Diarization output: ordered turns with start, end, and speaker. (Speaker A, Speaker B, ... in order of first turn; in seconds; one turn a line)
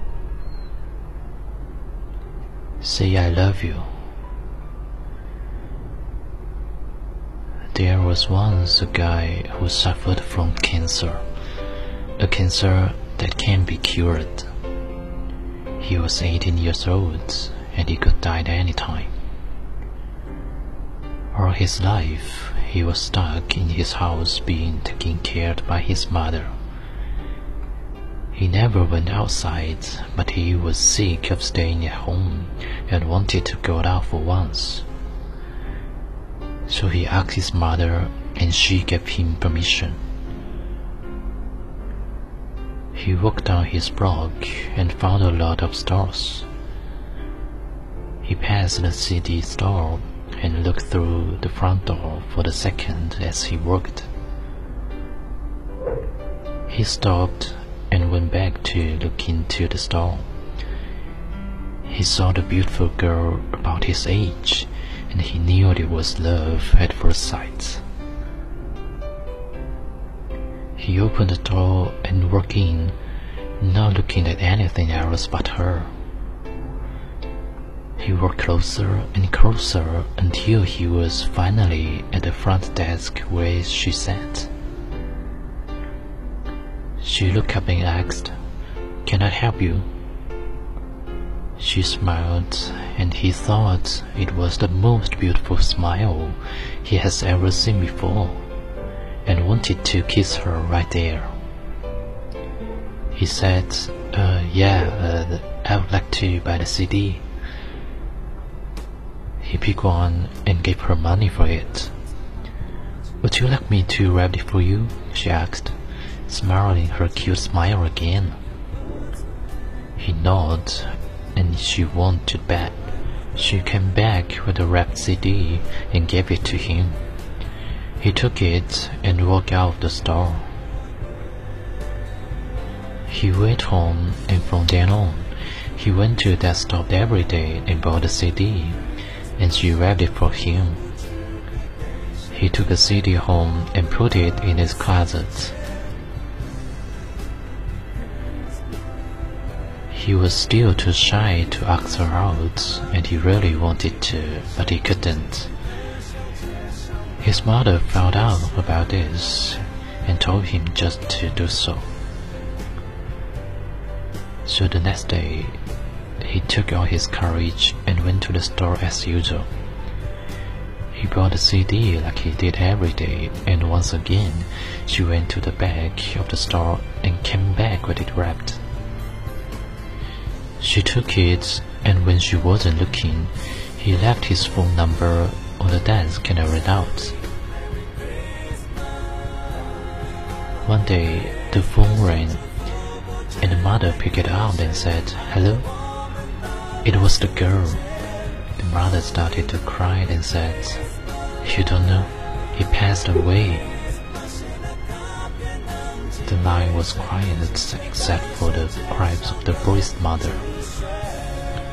Speaker A: 2.8-3.9
Speaker A: 7.7-11.2
Speaker A: 12.2-14.5
Speaker A: 15.8-19.1
Speaker A: 21.3-26.5
Speaker A: 28.3-34.9
Speaker A: 36.7-40.0
Speaker A: 42.9-46.5
Speaker A: 48.2-54.1
Speaker A: 56.7-60.2
Speaker A: 61.9-67.8
Speaker A: 70.8-73.0
Speaker A: 73.6-75.9
Speaker A: 78.0-84.5
Speaker A: 87.0-88.3
Speaker A: 89.0-89.8
Speaker A: 91.6-98.4
Speaker A: 99.2-101.3
Speaker A: 103.1-107.2
Speaker A: 109.4-111.9
Speaker A: 113.2-115.7
Speaker A: 116.3-118.3
Speaker A: 120.0-122.7
Speaker A: 123.3-127.0
Speaker A: 128.0-130.5
Speaker A: 133.1-138.8
Speaker A: 139.4-140.8
Speaker A: 142.3-145.6
Speaker A: 149.9-155.5
Speaker A: 157.2-161.8
Speaker A: 164.4-165.6
Speaker A: 166.2-169.5
Speaker A: 170.9-178.6
Speaker A: 180.6-187.1
Speaker A: 190.6-192.4
Speaker A: 193.4-195.7
Speaker A: 196.8-197.8
Speaker A: 198.6-200.8
Speaker A: 201.4-203.7
Speaker A: 206.2-210.4